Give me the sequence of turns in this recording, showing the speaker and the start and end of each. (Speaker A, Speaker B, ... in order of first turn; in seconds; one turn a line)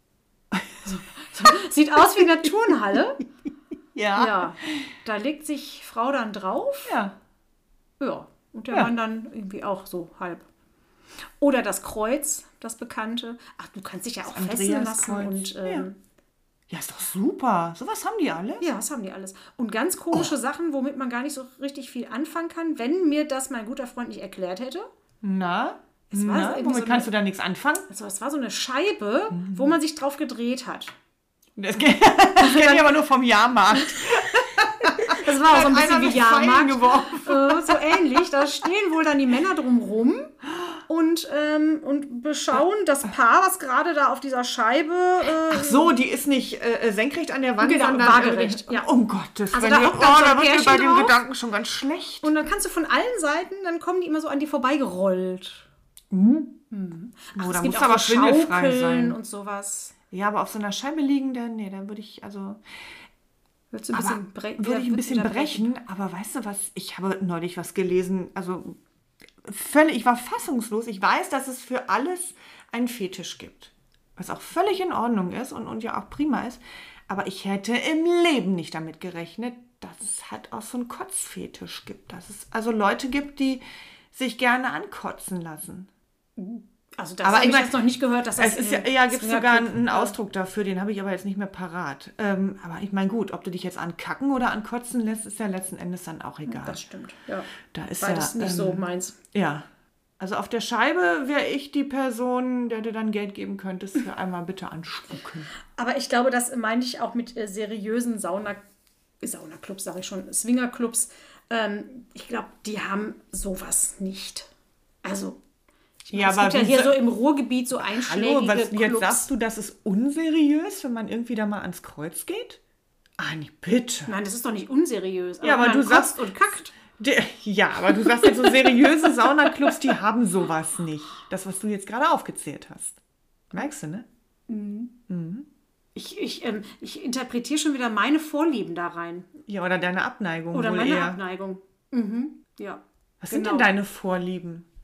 Speaker A: 0.5-0.9
Speaker B: 0.8-3.2
Speaker A: 4.0-4.7
Speaker B: 4.2-7.0
Speaker A: 6.9-7.2
Speaker B: 8.0-10.5
Speaker B: 11.4-16.0
Speaker A: 14.3-15.9
Speaker A: 16.7-18.7
Speaker B: 18.6-24.9
Speaker A: 25.2-27.9
Speaker B: 26.1-27.1
Speaker B: 27.9-30.9
Speaker A: 29.3-29.8
Speaker A: 31.6-38.0
Speaker B: 32.4-32.9
Speaker B: 33.8-34.0
Speaker B: 34.8-40.3
Speaker B: 40.9-45.9
Speaker A: 45.5-52.3
Speaker B: 47.6-48.9
Speaker B: 49.5-51.2
Speaker B: 52.2-55.7
Speaker A: 56.1-56.6
Speaker B: 56.7-59.9
Speaker A: 57.4-59.2
Speaker A: 60.1-62.6
Speaker B: 63.7-65.7
Speaker A: 63.9-68.8
Speaker A: 69.4-85.9
Speaker B: 86.4-90.1
Speaker A: 87.2-87.8
Speaker A: 88.4-96.8
Speaker B: 96.5-99.2
Speaker A: 97.7-99.7
Speaker A: 100.2-105.5
Speaker B: 105.8-108.6
Speaker B: 109.2-114.5
Speaker B: 115.0-115.4
Speaker B: 116.1-119.3
Speaker A: 116.1-117.0
Speaker A: 117.8-122.6
Speaker A: 123.2-124.1
Speaker B: 124.1-126.8
Speaker A: 125.4-133.0
Speaker A: 133.5-134.1
Speaker B: 134.5-134.9
Speaker A: 135.1-135.5
Speaker B: 135.9-139.3
Speaker A: 139.5-141.2
Speaker B: 140.5-143.7
Speaker A: 143.2-144.7